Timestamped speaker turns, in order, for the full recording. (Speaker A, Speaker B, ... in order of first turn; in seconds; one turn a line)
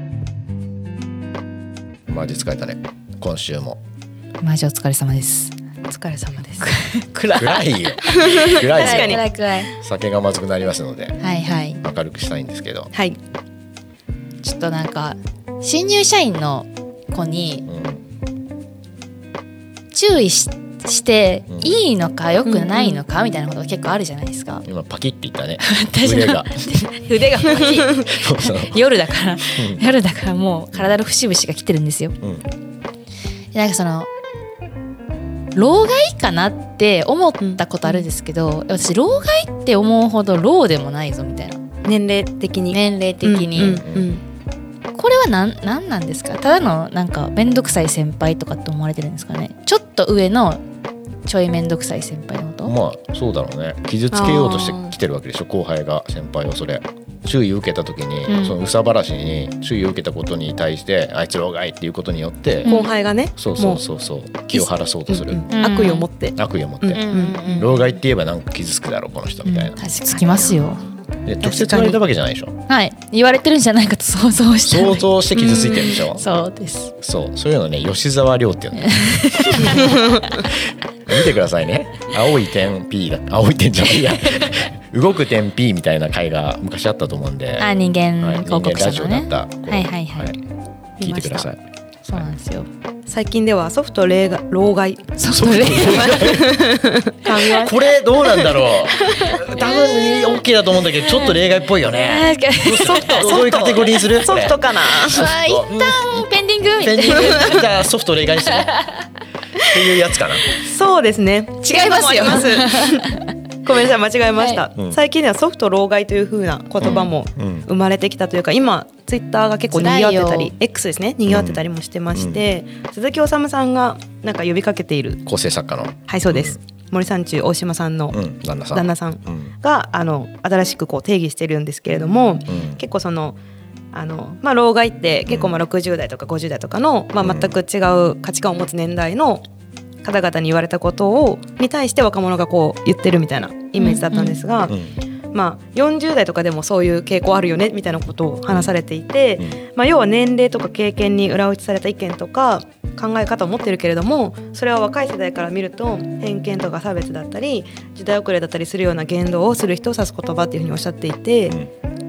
Speaker A: 2.1-3.8
Speaker B: 4.4-5.5
Speaker C: 5.9-6.7
Speaker B: 6.6-7.6
Speaker A: 7.3-11.2
Speaker C: 8.1-9.2
Speaker B: 8.7-9.8
Speaker B: 11.2-11.8
Speaker A: 11.8-12.9
Speaker B: 14.4-17.7
Speaker A: 17.7-18.0
Speaker B: 19.9-24.6
Speaker A: 21.5-21.8
Speaker C: 22.4-23.0
Speaker A: 24.7-26.5
Speaker B: 25.6-32.1
Speaker A: 28.1-28.8
Speaker A: 29.5-29.8
Speaker B: 33.5-34.1
Speaker B: 35.5-41.6
Speaker C: 37.4-38.1
Speaker C: 41.8-44.2
Speaker B: 42.7-43.8
Speaker A: 43.5-44.1
Speaker B: 45.0-50.6
Speaker B: 51.3-52.7
Speaker A: 52.6-62.7
Speaker C: 54.1-55.0
Speaker B: 58.3-58.6
Speaker B: 62.6-62.9
Speaker C: 62.7-63.8
Speaker A: 63.4-65.4
Speaker C: 64.5-67.7
Speaker B: 65.5-66.1
Speaker A: 66.3-67.0
Speaker B: 66.9-67.9
Speaker A: 67.5-69.8
Speaker B: 69.5-70.8
Speaker C: 70.1-70.8
Speaker A: 71.3-72.5
Speaker C: 71.4-72.0
Speaker B: 72.7-76.9
Speaker A: 74.6-76.2
Speaker C: 75.3-76.0
Speaker A: 77.0-80.0
Speaker B: 78.8-80.1
Speaker C: 79.8-80.1
Speaker A: 81.1-90.4
Speaker B: 87.6-90.3
Speaker C: 91.0-91.5
Speaker A: 91.0-91.6
Speaker B: 92.0-92.7
Speaker C: 93.1-99.3
Speaker B: 95.2-96.4
Speaker A: 95.3-96.7
Speaker B: 97.3-97.7
Speaker A: 97.5-108.7
Speaker B: 99.2-100.4
Speaker B: 101.0-101.4
Speaker B: 101.9-103.3
Speaker C: 102.8-105.2
Speaker B: 105.0-107.7
Speaker C: 107.3-107.6
Speaker B: 108.5-109.0
Speaker A: 109.7-110.5
Speaker C: 110.6-113.1
Speaker B: 111.6-113.1
Speaker C: 113.6-125.2
Speaker B: 114.4-114.7
Speaker A: 116.8-117.7
Speaker B: 116.8-117.1
Speaker B: 119.7-120.5
Speaker A: 121.3-121.6
Speaker A: 122.1-122.4
Speaker A: 125.2-126.6
Speaker C: 126.1-128.2
Speaker A: 128.1-129.5
Speaker C: 128.7-133.4
Speaker A: 132.5-132.8
Speaker C: 133.9-139.4
Speaker A: 135.3-135.6
Speaker A: 137.2-137.6
Speaker C: 140.0-144.8
Speaker B: 143.8-144.4
Speaker A: 144.7-144.9
Speaker C: 145.3-161.6